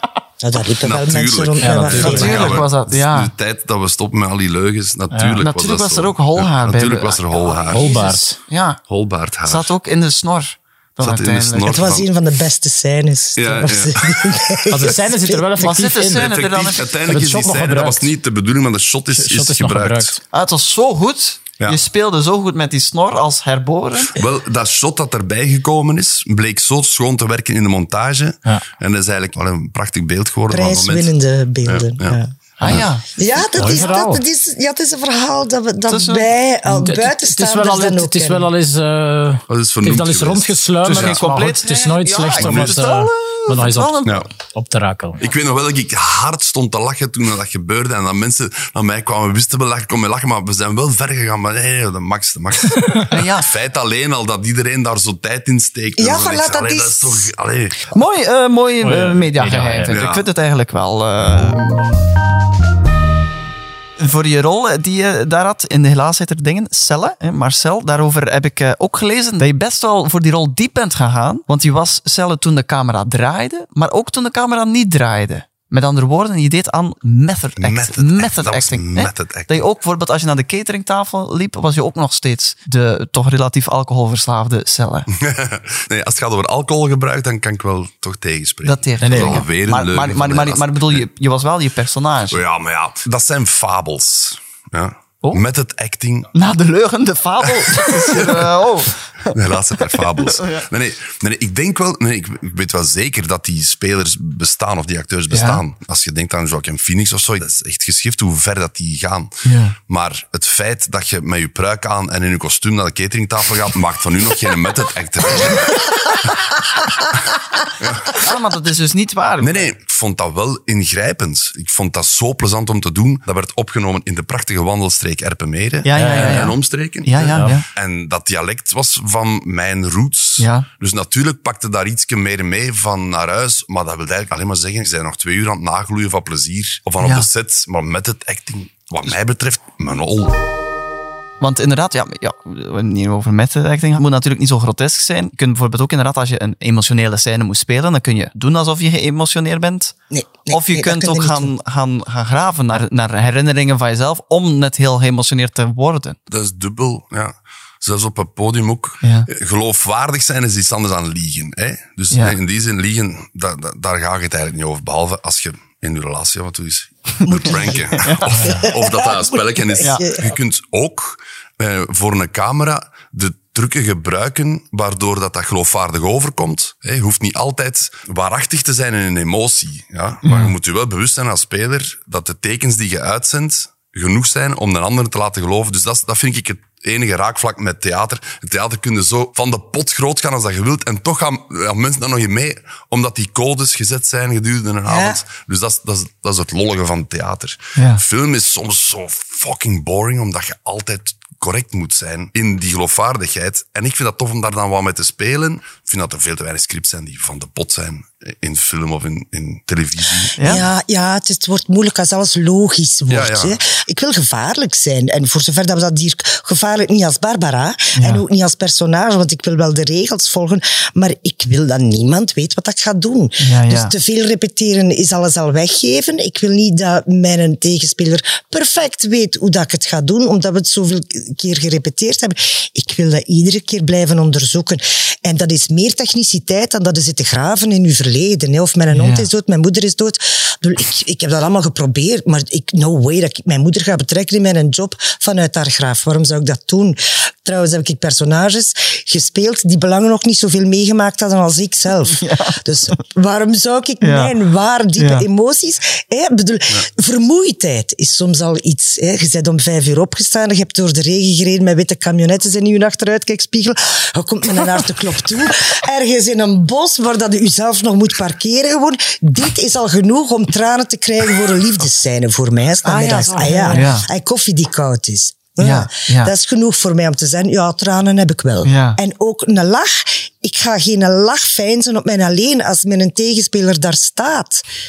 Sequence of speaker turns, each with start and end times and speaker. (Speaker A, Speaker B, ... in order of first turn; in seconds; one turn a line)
Speaker A: 0.4-2.6
Speaker B: 0.8-8.0
Speaker C: 1.6-2.6
Speaker D: 1.9-3.3
Speaker C: 5.1-5.4
Speaker D: 5.4-8.8
Speaker C: 7.7-8.4
Speaker B: 8.9-9.7
Speaker D: 9.4-11.8
Speaker B: 11.0-12.1
Speaker A: 11.6-15.4
Speaker B: 13.3-14.5
Speaker C: 14.7-16.4
Speaker D: 15.6-17.1
Speaker B: 16.1-20.2
Speaker C: 17.1-18.1
Speaker C: 19.1-20.2
Speaker D: 20.3-24.2
Speaker B: 24.1-31.1
Speaker A: 30.5-32.3
Speaker B: 31.6-32.9
Speaker D: 32.6-33.1
Speaker A: 33.1-38.5
Speaker C: 33.5-34.2
Speaker D: 35.9-36.3
Speaker C: 36.7-45.2
Speaker B: 39.5-41.2
Speaker D: 40.8-44.2
Speaker B: 42.3-42.8
Speaker B: 45.2-57.9
Speaker C: 52.8-53.1
Speaker D: 53.1-53.5
Speaker A: 56.0-57.3
Speaker D: 57.9-61.9
Speaker C: 58.8-59.9
Speaker B: 59.9-60.2
Speaker D: 64.0-85.1
Speaker B: 77.6-79.6
Speaker B: 85.2-91.0
Speaker D: 88.6-92.4
Speaker C: 89.0-89.4
Speaker B: 92.3-96.3
Speaker D: 96.3-100.7
Speaker B: 97.6-98.6
Speaker B: 99.3-116.5
Speaker D: 105.3-105.6
Speaker D: 109.4-109.7
Speaker B: 117.8-118.2
Speaker D: 118.1-119.7
Speaker B: 119.4-140.4
Speaker D: 125.8-127.7
Speaker C: 126.0-126.5
Speaker C: 127.2-127.6
Speaker D: 130.4-130.7
Speaker D: 137.0-137.3
Speaker D: 141.4-149.9
Speaker A: 150.1-151.5
Speaker D: 150.5-156.2
Speaker B: 156.3-210.3
Speaker D: 159.0-159.3
Speaker D: 162.1-162.4
Speaker A: 167.2-170.3
Speaker D: 167.9-168.5
Speaker D: 180.2-180.5
Speaker A: 194.9-195.2
Speaker D: 197.8-198.0
Speaker D: 210.4-210.7
Speaker A: 210.4-284.6
Speaker B: 213.1-213.6
Speaker D: 218.0-218.2
Speaker D: 223.4-223.9
Speaker D: 238.9-239.3
Speaker D: 252.2-252.6
Speaker D: 254.0-254.3
Speaker D: 255.0-255.2
Speaker D: 272.8-274.1
Speaker C: 273.6-273.9
Speaker D: 275.6-276.3
Speaker D: 278.6-279.0